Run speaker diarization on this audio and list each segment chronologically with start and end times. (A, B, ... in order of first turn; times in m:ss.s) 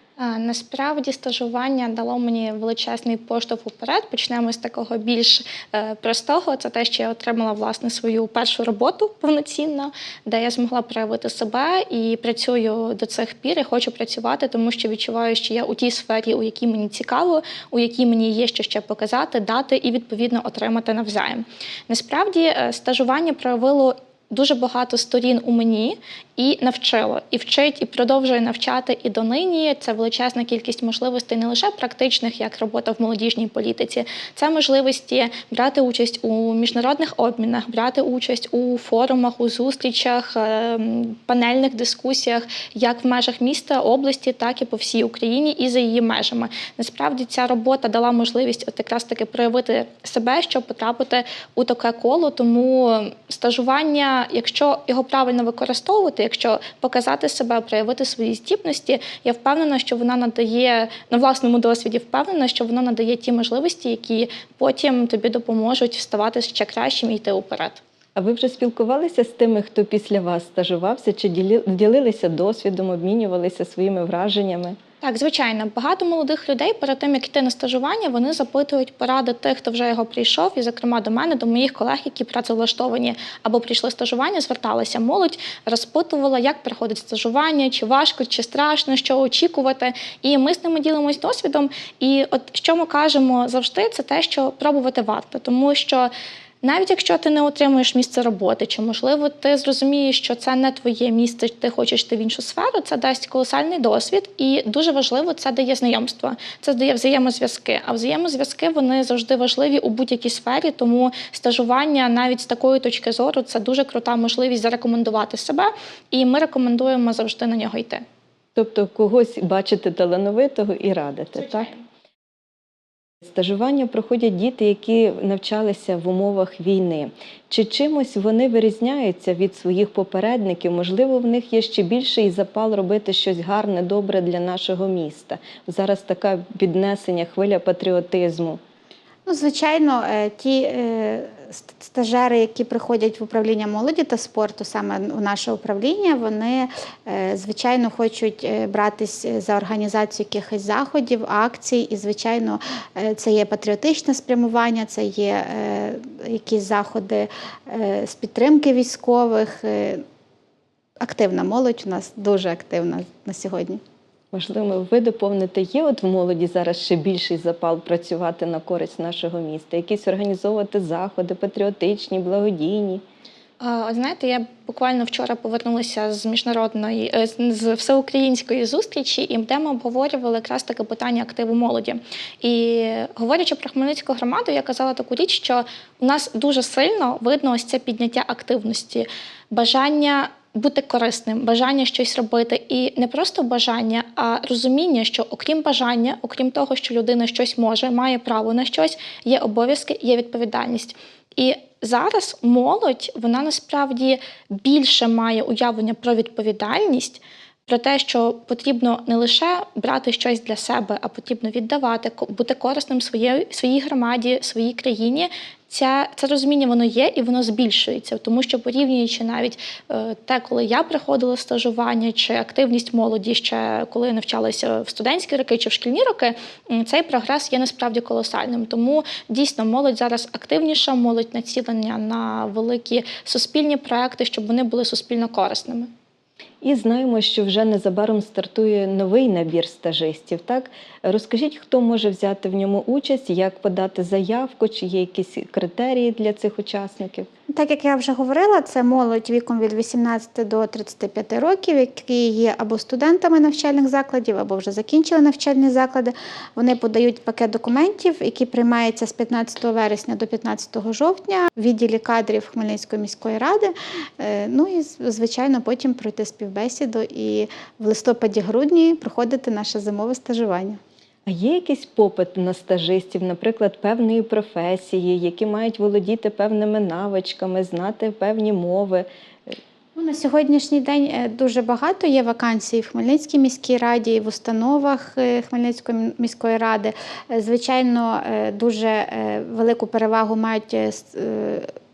0:00.2-1:07.8 A
1:08.2-1:14.8 B
1:15.0-1:36.1 A
1:36.6-1:58.0 A
1:58.6-2:01.8 B
2:03.2-2:18.6 B
2:19.3-2:40.0 C
2:41.0-2:43.8 C
2:44.3-2:53.0 B
2:53.6-3:55.9 A
3:56.6-4:07.3 B
4:07.5-4:30.8 C
4:31.3-4:39.6 B
4:40.0-4:51.7 C